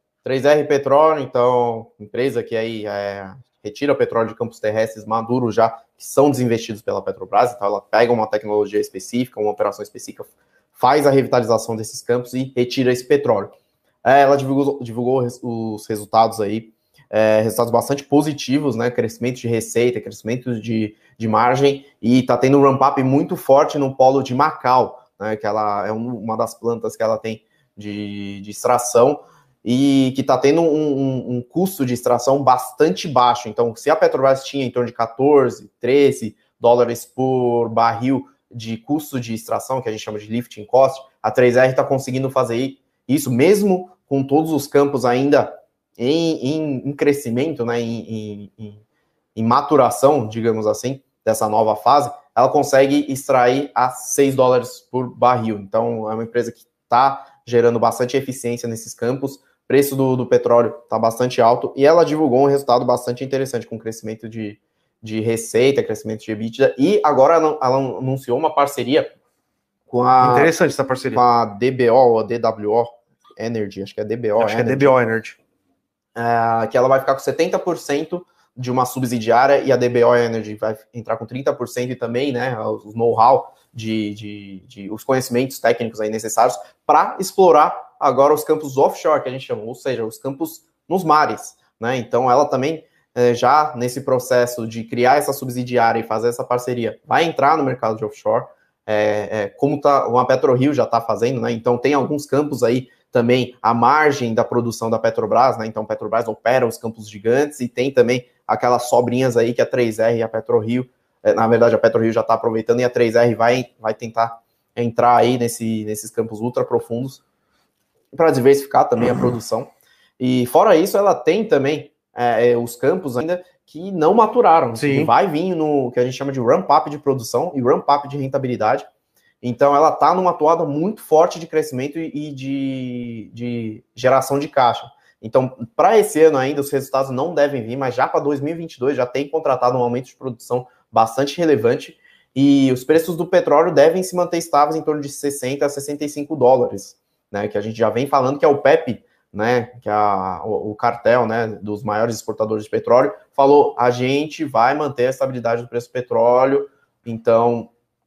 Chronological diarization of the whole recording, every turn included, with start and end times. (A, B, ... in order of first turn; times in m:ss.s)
0:00.2-0:48.8 A
0:49.4-1:09.1 A
1:09.9-1:10.5 A
1:10.2-1:11.2 B
1:11.1-1:15.0 A
1:14.4-1:15.4 B
1:16.1-1:57.2 A
1:58.1-2:08.8 A
2:04.7-2:05.1 B
2:09.4-2:37.7 A